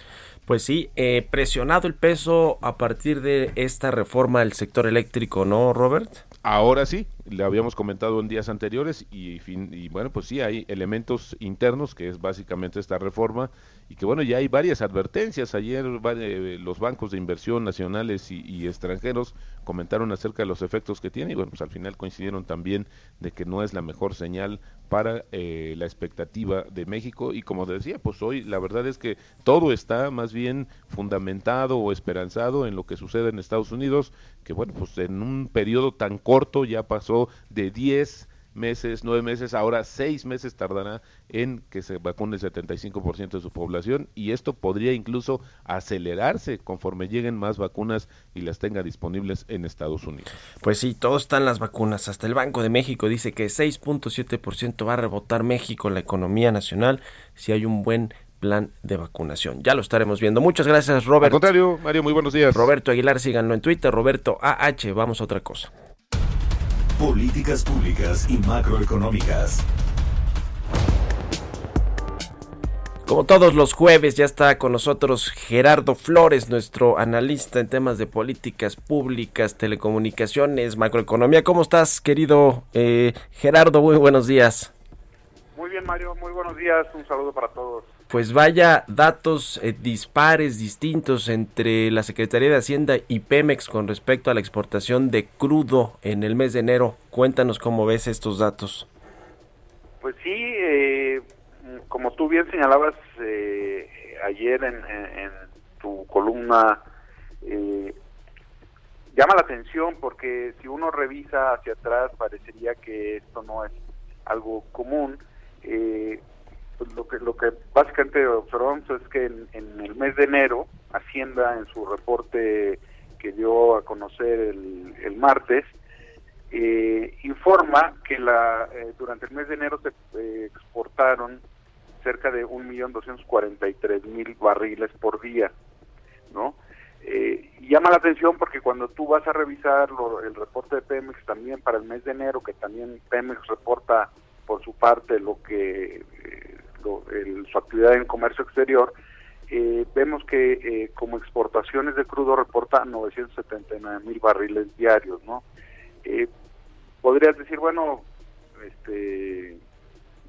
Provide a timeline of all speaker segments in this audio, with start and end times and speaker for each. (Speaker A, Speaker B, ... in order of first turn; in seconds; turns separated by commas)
Speaker A: 0.5-6.2, Speaker B: 6.4-50.3, Speaker A: 50.6-61.5, Speaker B: 61.2-62.7, Speaker A: 62.5-65.7, Speaker C: 67.0-69.6, Speaker A: 73.0-84.7, Speaker D: 85.5-87.9, Speaker A: 88.1-98.9, Speaker D: 100.0-106.8, Speaker D: 107.4-107.9, Speaker D: 109.1-116.2, Speaker D: 116.8-125.7, Speaker D: 126.5-131.4, Speaker D: 132.0-135.5, Speaker D: 136.3-148.9, Speaker D: 149.5-155.4, Speaker D: 157.0-158.0, Speaker D: 158.6-159.6